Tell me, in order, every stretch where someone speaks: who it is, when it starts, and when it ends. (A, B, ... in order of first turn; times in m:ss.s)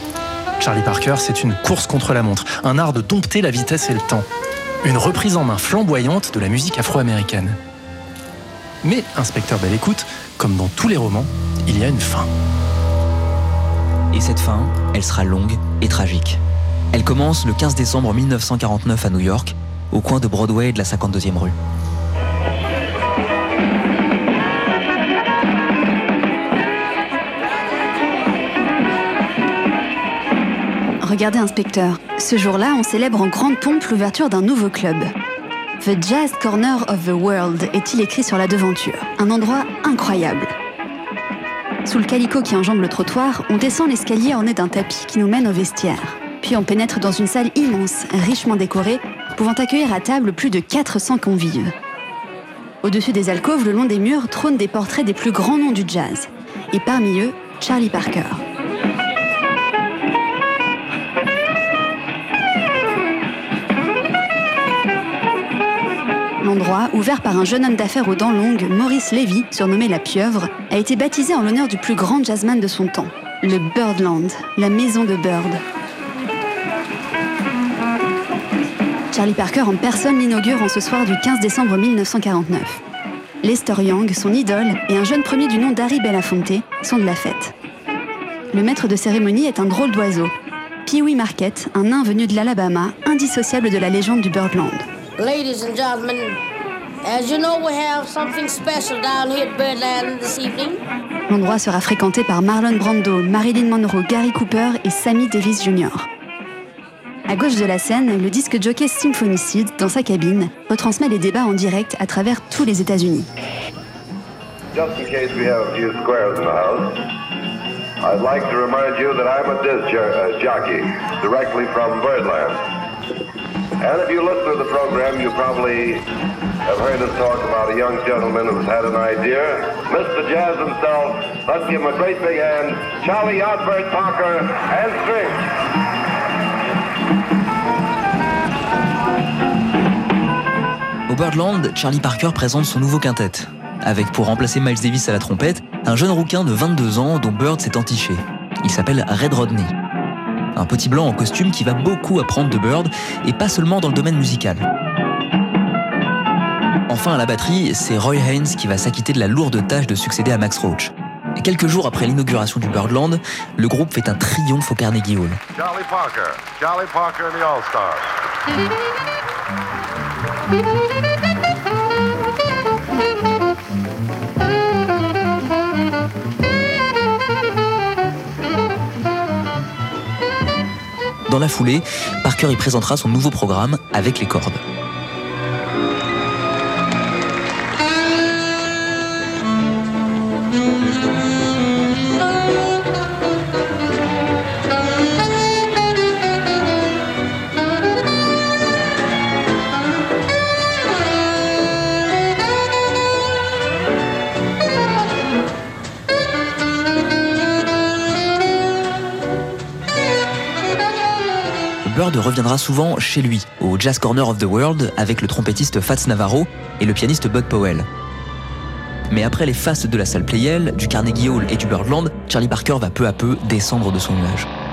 0:00.6-0:04.2 A
0:04.8-0:07.6 A
0:08.8-0:12.3 A
0:14.1-0:16.4 B
0:16.9-0:21.5 B
0:31.0-0:35.1 C
0:35.8-0:40.5 C
0:41.8-0:51.7 C
0:52.8-0:58.4 C
1:06.4-1:15.6 C
1:19.1-1:22.8 C
1:23.4-1:27.5 C
1:28.5-1:30.3 C
1:30.8-1:34.8 C
1:35.2-1:36.4 D
1:37.0-1:40.8 D
1:41.3-1:46.1 C
1:47.3-1:53.3 C
1:54.7-1:57.0 E
1:58.0-2:02.6 E
2:03.8-2:06.0 E
2:06.6-2:15.5 E
2:21.1-2:29.7 B
2:30.5-2:34.6 B
2:36.9-2:45.4 B
2:45.5-2:48.2 E
3:01.3-3:04.6 B
3:31.8-3:37.9 B
3:39.1-3:44.5 B